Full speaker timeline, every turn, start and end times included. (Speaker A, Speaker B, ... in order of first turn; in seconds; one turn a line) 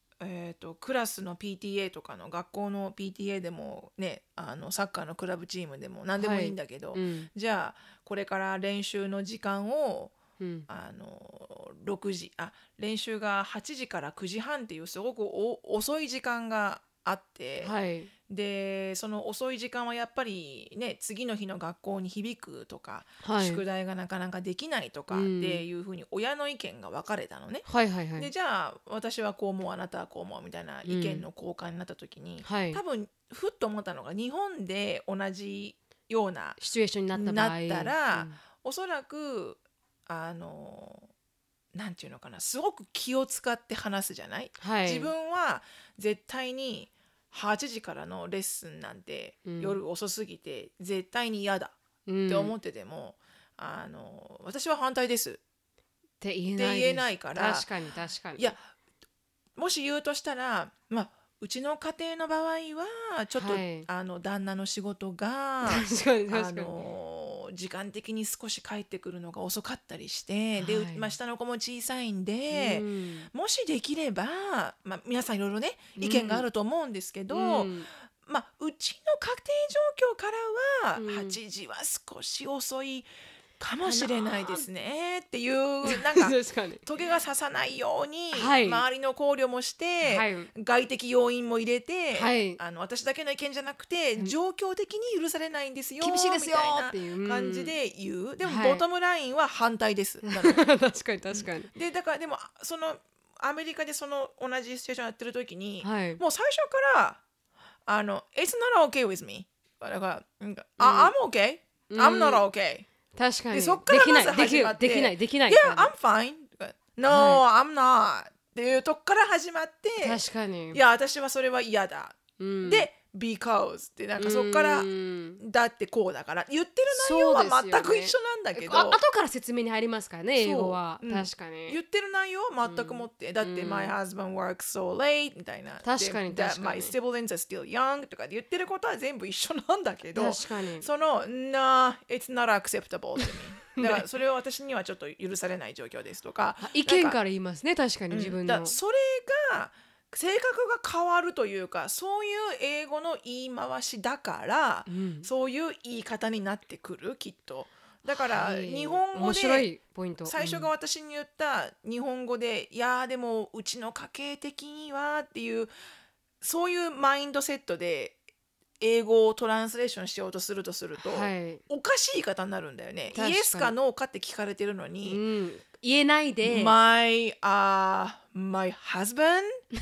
Speaker A: 0.2-10.1
Speaker B: 6.2-7.3
Speaker B: 10.4-10.7
Speaker A: 10.7-17.7
Speaker B: 17.6-18.1
Speaker A: 18.3-27.6
Speaker B: 23.2-23.6
Speaker B: 25.1-25.6
Speaker B: 27.6-28.3
Speaker A: 28.2-36.6
Speaker B: 30.8-31.2
Speaker B: 32.4-32.8
Speaker B: 36.6-38.4
Speaker A: 37.1-41.1
Speaker A: 41.7-51.7
Speaker B: 44.6-45.1
Speaker B: 49.5-49.8
Speaker B: 52.1-52.5
Speaker A: 52.3-55.4
Speaker B: 56.2-58.5
Speaker A: 56.6-57.7
Speaker A: 59.5-77.7
Speaker B: 63.3-63.9
Speaker B: 65.6-66.7
Speaker B: 70.6-71.1
Speaker B: 72.5-73.3
Speaker B: 76.0-76.5
Speaker B: 77.3-77.9
Speaker A: 78.2-83.1
Speaker B: 81.0-81.4
Speaker A: 83.6-100.7
Speaker B: 83.8-84.6
Speaker B: 85.8-86.8
Speaker B: 88.3-88.8
Speaker B: 90.0-90.5
Speaker B: 92.1-92.6
Speaker B: 96.0-97.7
Speaker B: 98.4-98.8
Speaker B: 100.2-101.7
Speaker A: 101.3-107.2
Speaker B: 105.8-106.2
Speaker A: 107.8-112.9
Speaker B: 110.8-111.1
Speaker B: 111.9-112.4
Speaker B: 113.1-115.9
Speaker A: 113.5-120.2
Speaker B: 117.1-117.4
Speaker B: 120.0-120.8
Speaker A: 120.7-124.9
Speaker B: 122.4-122.9
Speaker B: 124.2-125.4
Speaker A: 125.4-129.0
Speaker B: 126.9-131.8
Speaker A: 130.4-147.2
Speaker B: 132.6-133.9
Speaker B: 135.8-136.9
Speaker B: 140.1-140.9
Speaker B: 143.2-144.1
Speaker B: 146.6-148.8
Speaker A: 148.1-159.7
Speaker B: 154.9-155.3
Speaker B: 158.1-160.7
Speaker A: 160.2-165.7
Speaker A: 166.4-168.2
Speaker A: 168.8-175.2
Speaker B: 171.0-171.6
Speaker B: 173.1-173.7
Speaker B: 175.1-176.8
Speaker A: 176.4-179.6